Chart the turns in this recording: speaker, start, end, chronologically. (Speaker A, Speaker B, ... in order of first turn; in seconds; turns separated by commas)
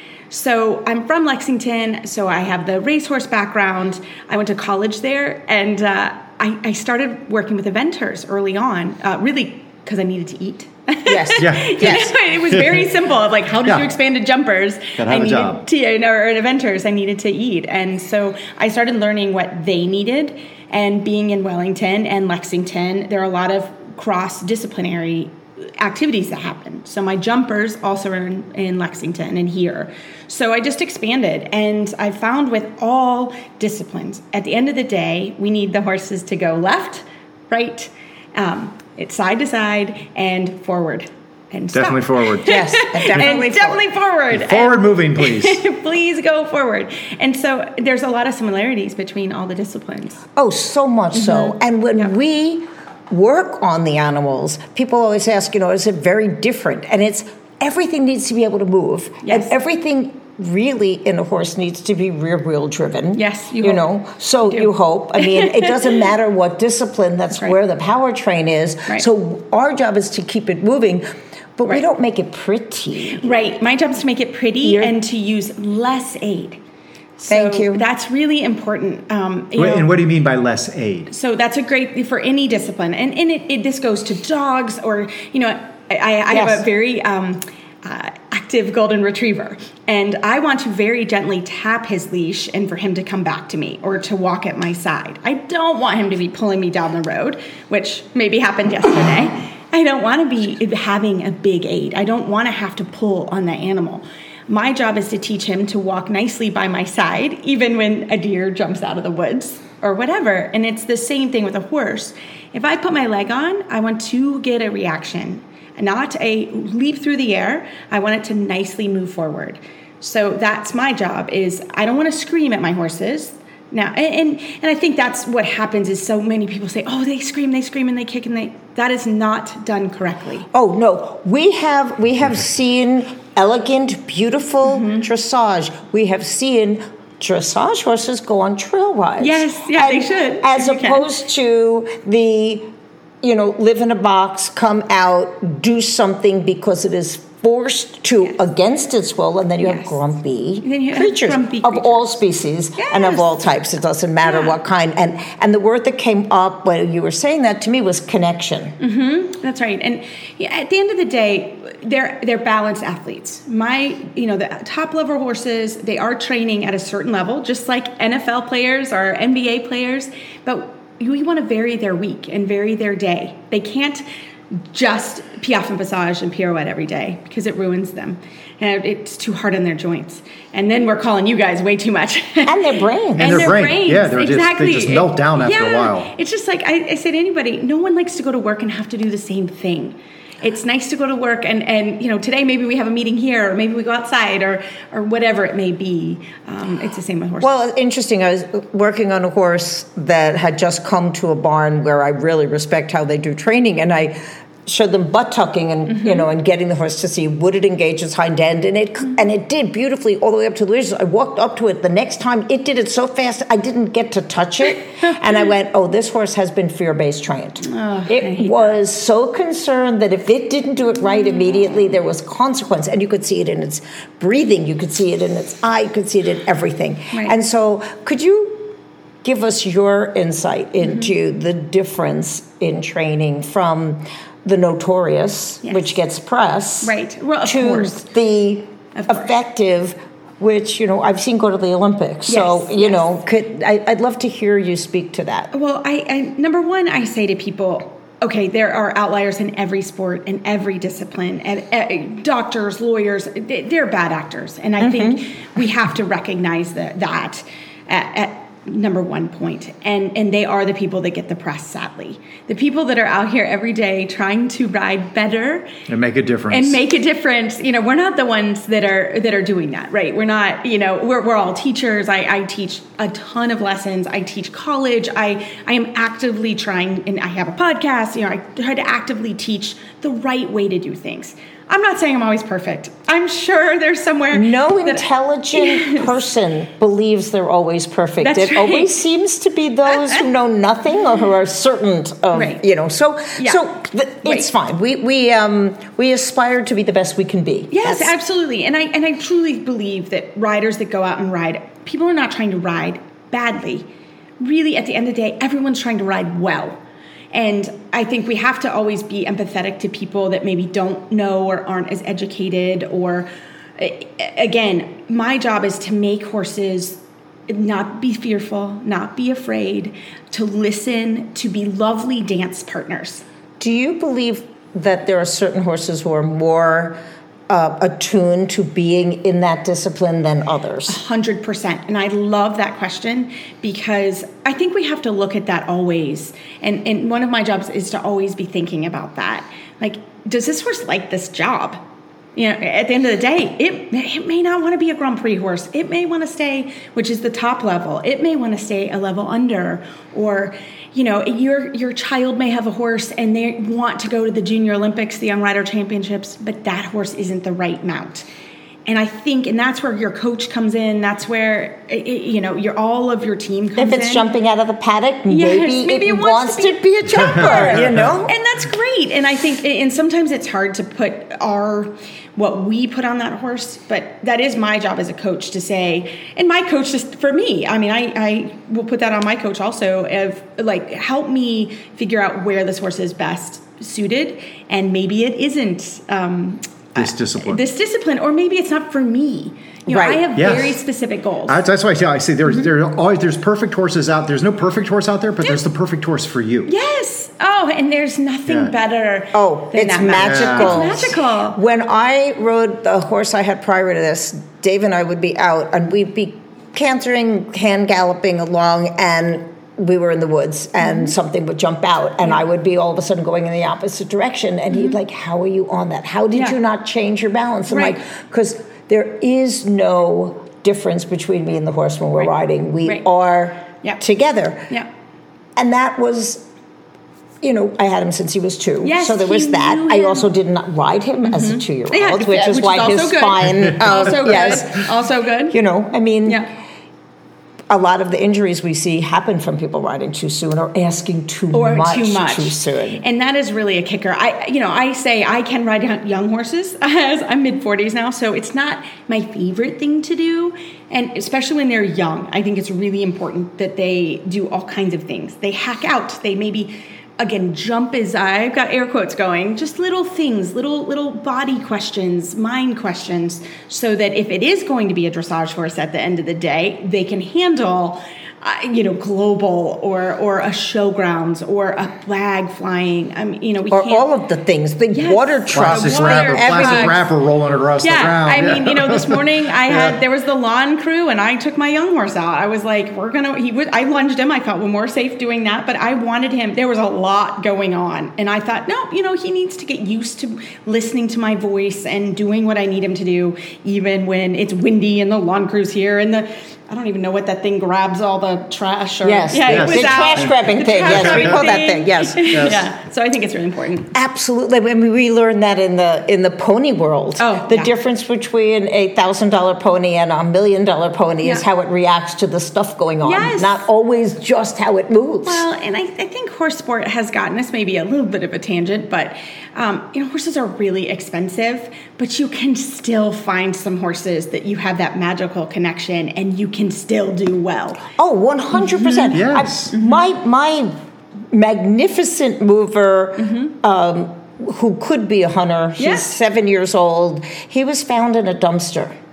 Speaker A: 0.3-50.2, Speaker B: 11.1-12.1, Speaker C: 11.4-12.9, Speaker C: 15.0-15.6, Speaker C: 41.7-42.6, Speaker B: 42.5-43.8, Speaker C: 44.3-45.6, Speaker B: 50.4-71.0, Speaker A: 51.1-52.1, Speaker A: 59.2-59.5, Speaker A: 63.1-63.8, Speaker A: 64.5-66.0, Speaker B: 71.6-73.3, Speaker A: 73.1-76.6, Speaker B: 74.6-74.9, Speaker A: 77.2-79.9, Speaker B: 77.3-77.8, Speaker C: 79.6-81.1, Speaker A: 81.1-130.5, Speaker B: 86.3-86.6, Speaker B: 130.5-142.7, Speaker A: 134.6-135.1, Speaker A: 139.2-141.0, Speaker B: 143.2-158.7, Speaker A: 149.6-149.9, Speaker A: 150.6-152.1, Speaker A: 152.8-153.4, Speaker A: 154.2-154.6, Speaker A: 158.8-174.0, Speaker A: 174.6-182.6, Speaker B: 182.4-183.6, Speaker A: 183.2-197.5, Speaker C: 183.2-186.1, Speaker B: 197.4-236.9, Speaker A: 205.9-206.2, Speaker A: 217.6-218.7, Speaker A: 230.8-231.1, Speaker A: 235.6-235.9, Speaker A: 236.8-238.1, Speaker B: 237.4-245.5, Speaker A: 238.9-239.4, Speaker A: 242.3-243.1, Speaker A: 245.5-265.7, Speaker B: 254.8-255.2, Speaker C: 265.9-266.8, Speaker A: 266.5-286.1, Speaker B: 284.3-298.1, Speaker A: 288.2-288.9, Speaker A: 289.9-290.2, Speaker A: 292.3-292.6, Speaker A: 293.4-293.6, Speaker A: 297.7-303.9, Speaker A: 304.4-306.8, Speaker A: 307.3-323.2, Speaker B: 323.6-327.0, Speaker B: 327.5-331.0, Speaker A: 330.9-341.8, Speaker A: 342.4-358.2, Speaker A: 358.9-364.2, Speaker B: 363.8-368.3, Speaker A: 365.3-391.6, Speaker C: 367.2-368.2, Speaker C: 386.9-387.6, Speaker B: 389.9-390.2, Speaker C: 390.4-390.8, Speaker C: 391.5-396.7, Speaker A: 396.6-401.6, Speaker C: 398.5-398.7, Speaker B: 399.3-424.7, Speaker C: 400.2-400.9, Speaker A: 410.8-411.1, Speaker A: 414.7-415.0, Speaker A: 417.7-418.0, Speaker B: 425.6-426.4, Speaker B: 427.4-434.9, Speaker A: 428.8-430.3, Speaker A: 431.2-435.6, Speaker B: 435.5-436.4, Speaker B: 437.7-443.0, Speaker A: 441.5-474.1, Speaker B: 473.7-477.0, Speaker A: 474.9-477.1, Speaker C: 475.5-480.0, Speaker A: 477.8-503.9, Speaker B: 499.0-502.6, Speaker C: 499.5-501.5, Speaker C: 502.3-502.6, Speaker B: 503.9-515.5, Speaker A: 507.2-507.7, Speaker A: 513.0-513.6, Speaker A: 515.2-527.8, Speaker B: 528.0-530.7, Speaker A: 528.5-529.2, Speaker C: 529.1-529.7, Speaker A: 529.7-530.0, Speaker B: 531.3-538.9, Speaker A: 533.2-533.5, Speaker A: 535.8-536.1